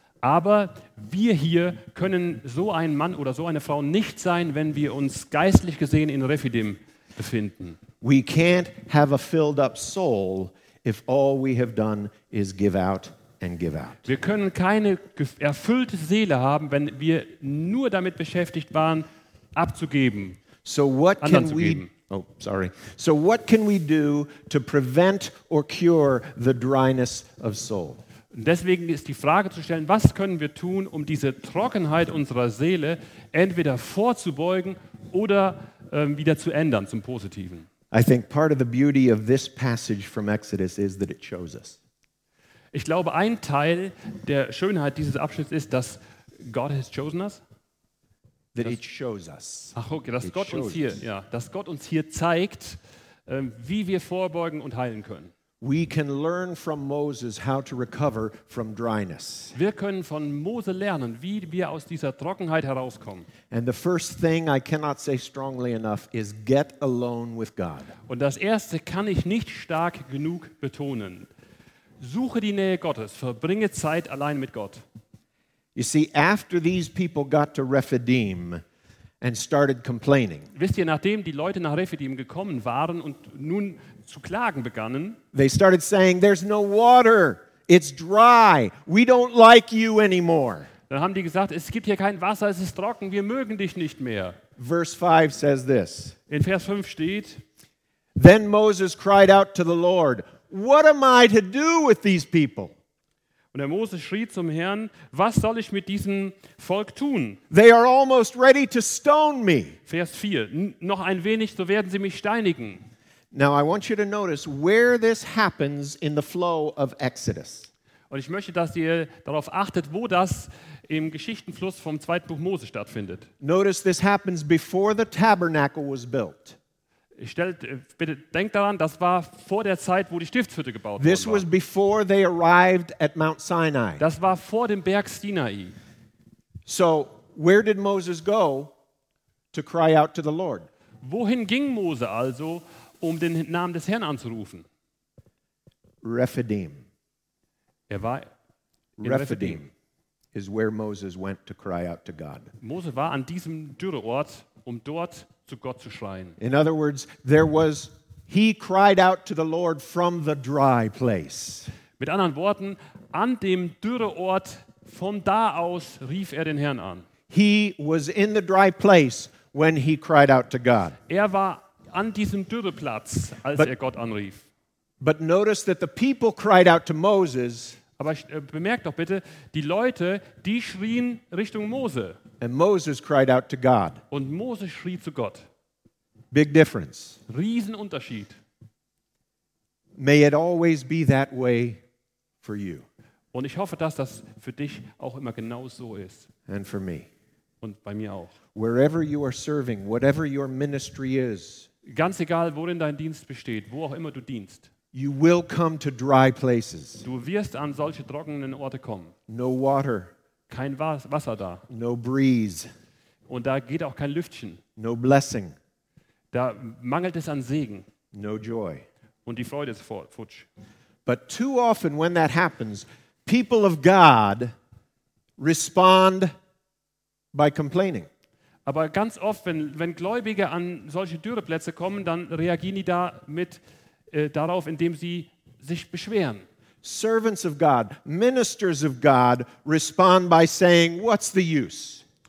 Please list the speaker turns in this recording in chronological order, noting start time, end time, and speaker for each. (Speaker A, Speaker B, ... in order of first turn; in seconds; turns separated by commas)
Speaker A: 0.2-7.8, Speaker B: 8.0-14.0, Speaker A: 14.0-20.4, Speaker B: 20.6-28.0, Speaker A: 21.2-21.9, Speaker A: 28.3-37.7, Speaker B: 37.9-41.8, Speaker A: 42.7-47.4, Speaker B: 48.5-51.0, Speaker A: 49.7-55.3, Speaker B: 55.6-59.5, Speaker A: 59.5-63.3, Speaker B: 63.5-67.9, Speaker A: 68.1-71.3, Speaker A: 72.0-74.8, Speaker B: 75.7-78.6, Speaker B: 79.2-80.5, Speaker A: 80.5-85.2, Speaker B: 85.3-90.7, Speaker A: 90.9-94.4, Speaker B: 94.6-96.2, Speaker A: 96.3-97.4, Speaker B: 98.2-102.7, Speaker A: 103.5-107.4, Speaker B: 107.5-109.8, Speaker A: 109.9-112.8, Speaker B: 113.3-117.7, Speaker A: 118.1-123.3, Speaker B: 123.4-126.5, Speaker A: 127.2-131.4, Speaker B: 131.0-134.0, Speaker A: 134.0-135.8, Speaker B: 136.7-138.7, Speaker B: 139.5-140.7, Speaker A: 141.0-144.6, Speaker B: 146.0-146.8, Speaker A: 147.9-148.3, Speaker B: 149.0-149.7, Speaker A: 149.0-149.6, Speaker B: 150.3-152.5, Speaker A: 152.6-156.4, Speaker B: 156.4-161.7, Speaker A: 162.0-167.1, Speaker B: 167.3-170.9, Speaker A: 171.1-174.4, Speaker B: 175.0-177.8, Speaker A: 178.0-182.2, Speaker B: 182.4-184.0, Speaker A: 184.1-185.4, Speaker B: 186.3-187.2, Speaker A: 187.3-188.4, Speaker B: 190.0-191.8, Speaker B: 192.4-192.8, Speaker A: 193.3-196.3, Speaker B: 196.5-197.1, Speaker A: 197.6-198.3, Speaker B: 198.5-201.7, Speaker A: 201.9-204.7, Speaker B: 204.9-207.0, Speaker A: 207.0-209.1, Speaker B: 209.3-210.1, Speaker A: 210.5-211.6, Speaker B: 211.7-212.7, Speaker A: 213.3-214.6, Speaker B: 214.8-215.5, Speaker A: 216.3-217.8, Speaker B: 218.1-218.8, Speaker A: 219.2-220.5, Speaker B: 221.1-224.5, Speaker B: 225.4-226.3, Speaker B: 227.3-228.1, Speaker A: 228.7-236.4, Speaker B: 236.8-242.0